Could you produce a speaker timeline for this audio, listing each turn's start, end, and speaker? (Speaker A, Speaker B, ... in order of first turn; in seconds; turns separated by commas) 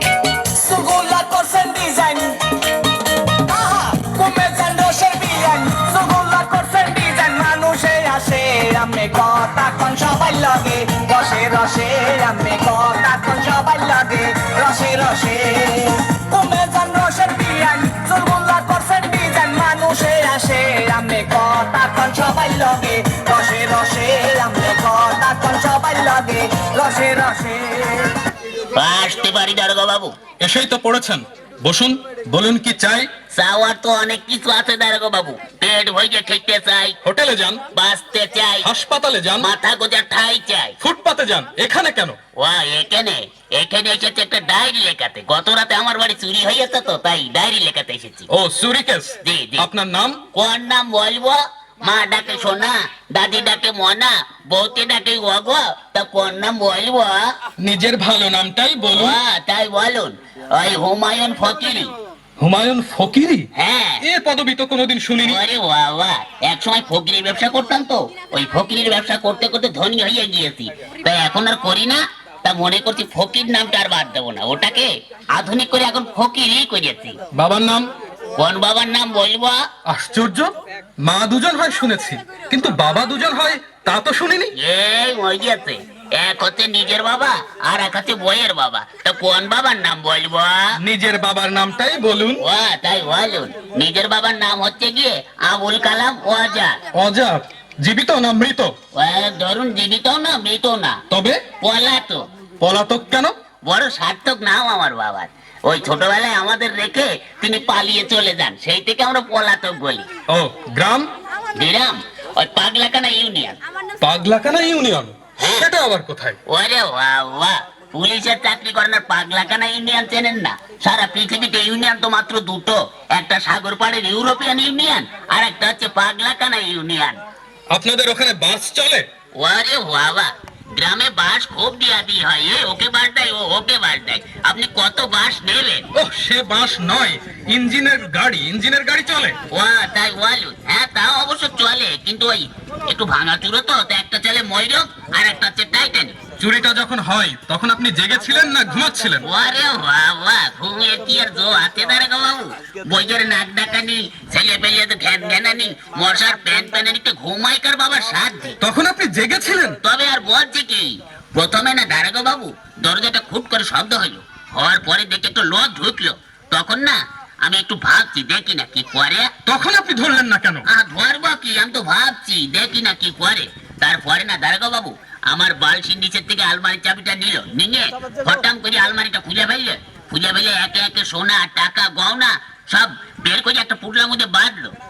Speaker A: 0.6-2.4, Speaker A: 3.5-28.1, Speaker B: 28.8-30.1, Speaker C: 30.4-33.1, Speaker B: 33.3-37.0, Speaker C: 37.0-37.6, Speaker B: 37.7-38.7, Speaker C: 38.6-39.5, Speaker B: 39.4-40.7, Speaker C: 40.8-42.2, Speaker B: 42.4-48.3, Speaker C: 48.3-50.2, Speaker B: 49.2-49.6, Speaker B: 50.3-57.2, Speaker C: 57.6-59.2, Speaker B: 58.9-61.9, Speaker C: 62.4-63.5, Speaker B: 63.5-64.0, Speaker C: 64.0-65.4, Speaker B: 65.2-77.2, Speaker C: 77.3-77.8, Speaker B: 78.4-79.6, Speaker C: 79.8-80.5, Speaker C: 81.0-84.5, Speaker B: 84.6-90.6, Speaker C: 90.8-92.4, Speaker B: 92.4-96.7, Speaker C: 96.9-98.7, Speaker B: 99.0-101.0, Speaker C: 101.1-101.4, Speaker B: 101.6-102.2, Speaker C: 102.6-103.3, Speaker B: 103.7-110.1, Speaker C: 110.3-111.1, Speaker B: 111.6-113.6, Speaker C: 114.0-116.4, Speaker B: 115.4-115.6, Speaker B: 116.5-127.2, Speaker C: 127.7-129.1, Speaker B: 129.4-135.8, Speaker C: 135.9-139.3, Speaker B: 139.5-146.2, Speaker C: 146.4-149.2, Speaker B: 149.2-158.6, Speaker C: 158.6-159.8, Speaker B: 159.8-169.3, Speaker C: 169.4-170.7, Speaker B: 170.7-184.7